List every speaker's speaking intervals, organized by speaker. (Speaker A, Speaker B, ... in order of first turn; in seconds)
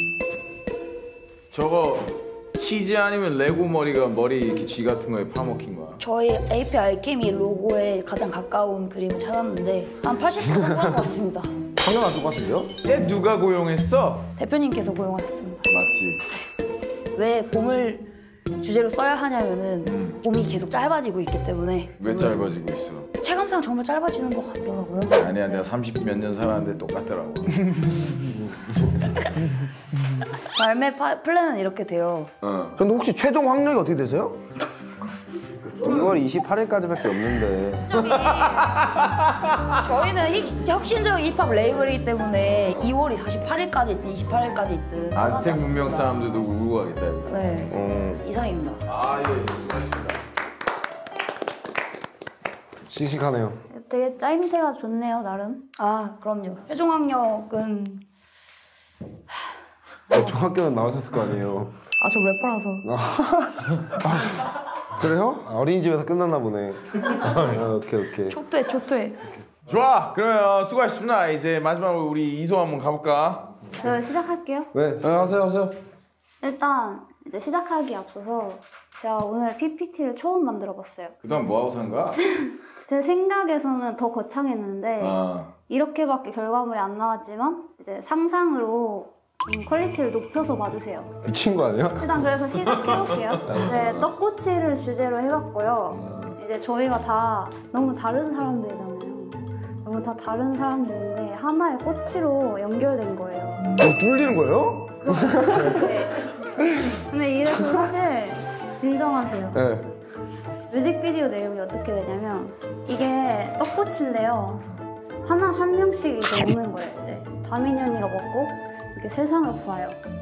Speaker A: 1.5-6.0, 12.8-14.3, 15.7-16.2, 19.9-20.2, 22.0-23.1, 25.1-27.9, 32.4-32.8, 37.9-39.5, 45.1-47.6, 48.9-50.2, 69.7-73.5, 81.2-82.2, 85.0-85.5, 92.9-93.6
Speaker B: 6.0-11.5, 14.3-15.7, 17.1-22.3, 23.2-25.1, 30.5-32.3, 37.9-38.8, 39.8-46.2, 47.2-48.8, 55.8-58.0, 62.0-62.9, 68.3-69.2
Speaker C: 11.9-12.6, 32.8-34.4, 47.7-48.2, 65.0-65.4, 75.0-75.7, 103.8-105.7, 109.5-109.8
Speaker D: 12.0-12.5, 35.8-38.0, 52.9-53.6, 60.1-61.7, 62.8-64.3, 65.4-68.4, 74.7-75.1, 91.2-92.1, 93.5-94.0
Speaker E: 53.7-55.7, 73.8-74.7, 76.4-81.1, 82.8-91.1, 92.0-103.7, 105.0-109.6, 110.7-114.7, 115.2-120.0